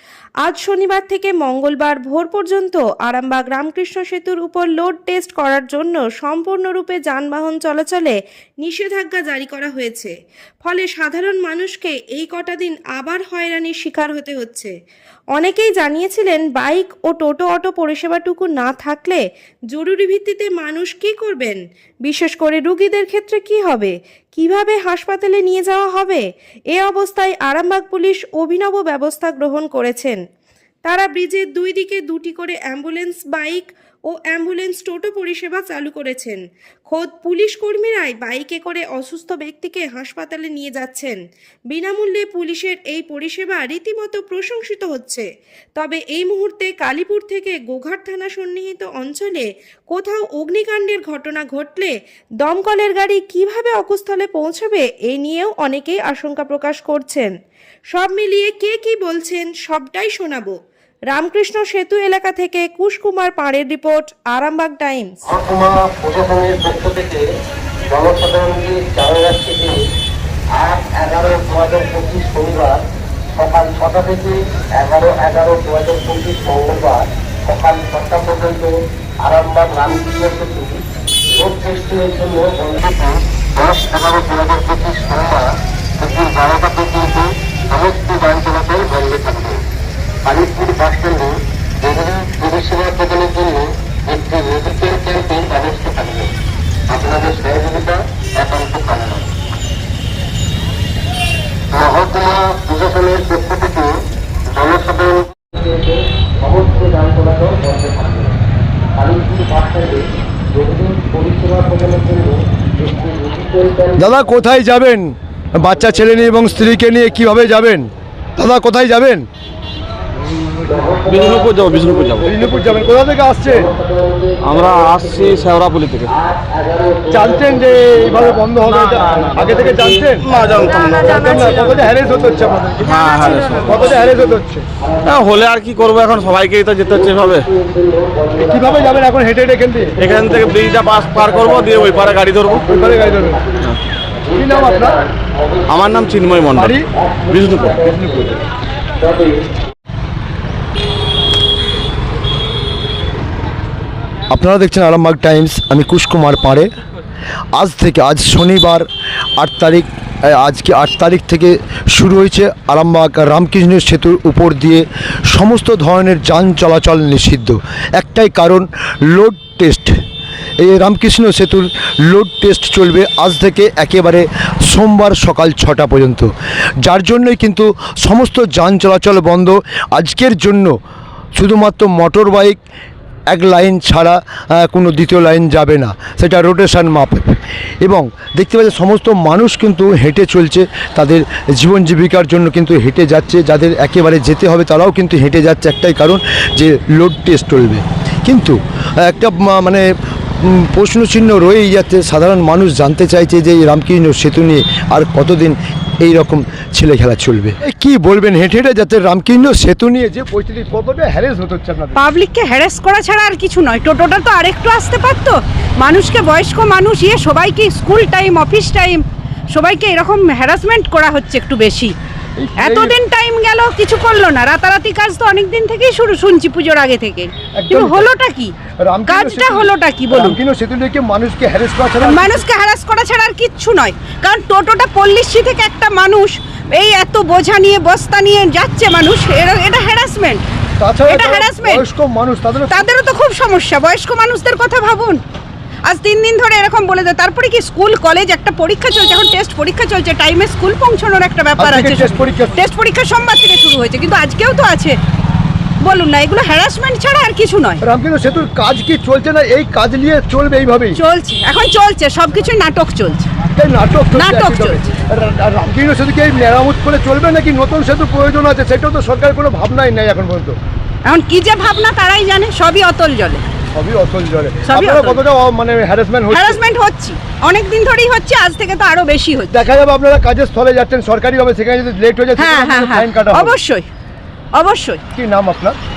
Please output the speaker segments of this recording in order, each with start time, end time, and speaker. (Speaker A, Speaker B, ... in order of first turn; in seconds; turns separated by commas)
Speaker A: 0.4-14.7, Speaker A: 15.3-30.2, Speaker A: 30.9-41.2, Speaker A: 41.7-57.3, Speaker A: 57.9-60.6, Speaker A: 61.1-65.2, Speaker B: 65.3-67.2, Speaker B: 67.9-69.8, Speaker B: 70.6-72.8, Speaker B: 73.4-78.7, Speaker B: 79.2-80.8, Speaker B: 81.4-85.5, Speaker B: 86.0-89.6, Speaker B: 90.2-96.3, Speaker B: 96.9-99.2, Speaker B: 101.7-103.9, Speaker B: 104.5-108.3, Speaker B: 109.0-114.1, Speaker C: 114.0-119.3, Speaker B: 120.6-132.5, Speaker D: 121.0-122.3, Speaker C: 122.2-123.7, Speaker D: 124.4-126.1, Speaker C: 127.1-130.3, Speaker D: 128.7-129.5, Speaker D: 130.3-130.8, Speaker A: 130.8-131.7, Speaker C: 131.1-134.7, Speaker D: 132.9-134.0, Speaker A: 133.1-133.7, Speaker B: 133.3-134.3, Speaker B: 134.8-135.5, Speaker D: 135.1-137.5, Speaker B: 136.9-139.0, Speaker C: 138.4-140.0, Speaker D: 140.0-142.7, Speaker B: 140.0-148.4, Speaker C: 142.7-143.4, Speaker C: 144.4-145.0, Speaker D: 145.7-146.7, Speaker C: 146.5-146.8, Speaker D: 147.3-147.8, Speaker C: 147.8-148.3, Speaker B: 149.0-149.4, Speaker C: 154.3-156.7, Speaker C: 157.6-158.9, Speaker C: 159.4-169.9, Speaker C: 170.6-176.3, Speaker C: 176.8-180.7, Speaker C: 181.4-182.6, Speaker C: 183.3-199.8, Speaker C: 200.4-212.1, Speaker E: 212.0-221.9, Speaker C: 222.4-223.0, Speaker E: 222.6-228.6, Speaker C: 227.6-228.1, Speaker C: 228.8-232.5, Speaker E: 229.1-230.4, Speaker E: 232.0-240.5, Speaker C: 240.8-242.9, Speaker E: 241.1-241.9, Speaker E: 242.7-245.2, Speaker E: 245.9-255.0, Speaker C: 251.6-252.6, Speaker E: 255.8-257.8, Speaker C: 257.8-261.0, Speaker E: 261.0-263.3, Speaker C: 263.6-270.6, Speaker E: 264.1-264.9, Speaker E: 271.1-273.5, Speaker C: 273.8-276.6, Speaker E: 274.7-275.3, Speaker E: 276.3-279.6, Speaker C: 279.5-283.6, Speaker E: 282.4-283.9, Speaker E: 284.5-285.0, Speaker C: 285.1-285.8